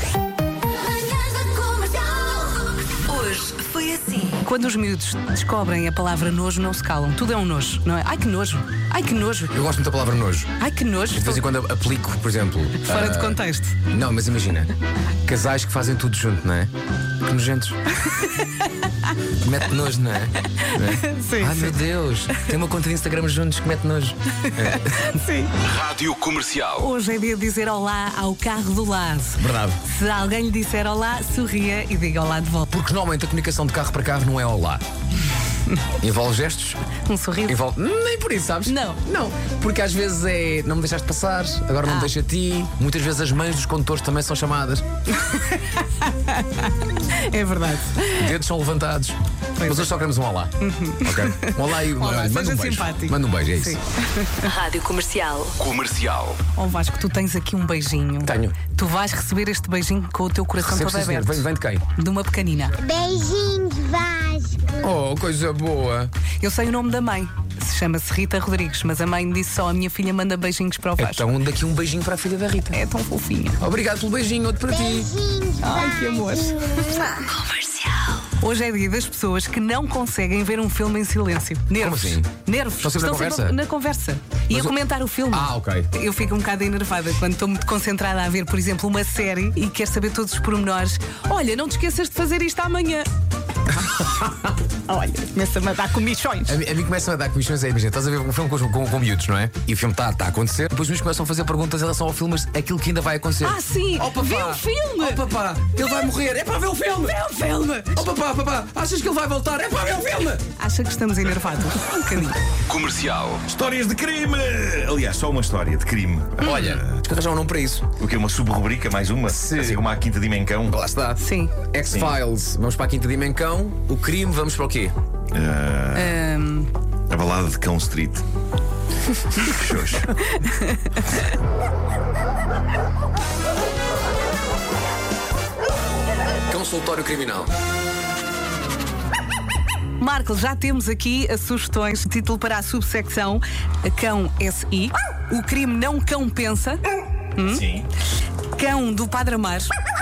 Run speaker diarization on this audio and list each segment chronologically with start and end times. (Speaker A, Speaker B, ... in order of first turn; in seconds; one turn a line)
Speaker A: 0.9-4.4
Speaker B: 4.3-9.5
Speaker C: 9.5-10.5
Speaker B: 10.6-11.5
Speaker C: 11.1-14.7
Speaker B: 12.8-13.8
Speaker C: 15.2-17.8
Speaker B: 18.0-19.1
Speaker C: 19.4-25.1
Speaker B: 20.6-21.8
Speaker B: 24.4-25.6
Speaker D: 25.6-26.9
Speaker B: 26.8-32.7
Speaker C: 29.4-29.8
Speaker C: 32.7-34.8
Speaker C: 36.0-36.8
Speaker B: 37.0-37.6
Speaker C: 37.5-44.8
Speaker B: 38.7-39.0
Speaker B: 41.8-42.1
Speaker B: 45.1-48.3
Speaker C: 48.1-50.5
Speaker B: 49.6-49.9
Speaker B: 50.6-54.5
Speaker C: 51.0-53.8
Speaker A: 54.4-55.6
Speaker D: 55.6-56.4
Speaker B: 56.5-62.8
Speaker C: 58.2-58.6
Speaker C: 60.6-61.8
Speaker E: 62.8-64.7
Speaker C: 64.7-66.1
Speaker B: 66.4-71.3
Speaker C: 71.0-72.8
Speaker B: 72.7-73.6
Speaker C: 73.6-75.3
Speaker E: 74.9-76.4
Speaker B: 75.6-77.2
Speaker A: 77.2-78.2
Speaker B: 78.3-93.1
Speaker C: 81.8-83.5
Speaker C: 85.3-85.9
Speaker B: 94.9-96.6
Speaker C: 96.5-110.4
Speaker B: 103.4-105.2
Speaker B: 105.8-106.1
Speaker B: 107.0-108.0
Speaker B: 110.6-112.4
Speaker D: 112.7-113.5
Speaker F: 113.5-116.8
Speaker C: 116.4-117.9
Speaker B: 116.4-116.8
Speaker F: 118.0-120.8
Speaker C: 119.3-119.8
Speaker C: 120.7-125.0
Speaker B: 121.2-121.5
Speaker F: 121.9-122.2
Speaker F: 125.3-126.1
Speaker B: 125.9-126.7
Speaker F: 127.1-128.2
Speaker F: 129.3-130.1
Speaker B: 130.3-131.1
Speaker C: 136.5-137.5
Speaker B: 140.0-146.8
Speaker B: 147.3-147.7
Speaker F: 147.5-147.9
Speaker B: 148.5-149.7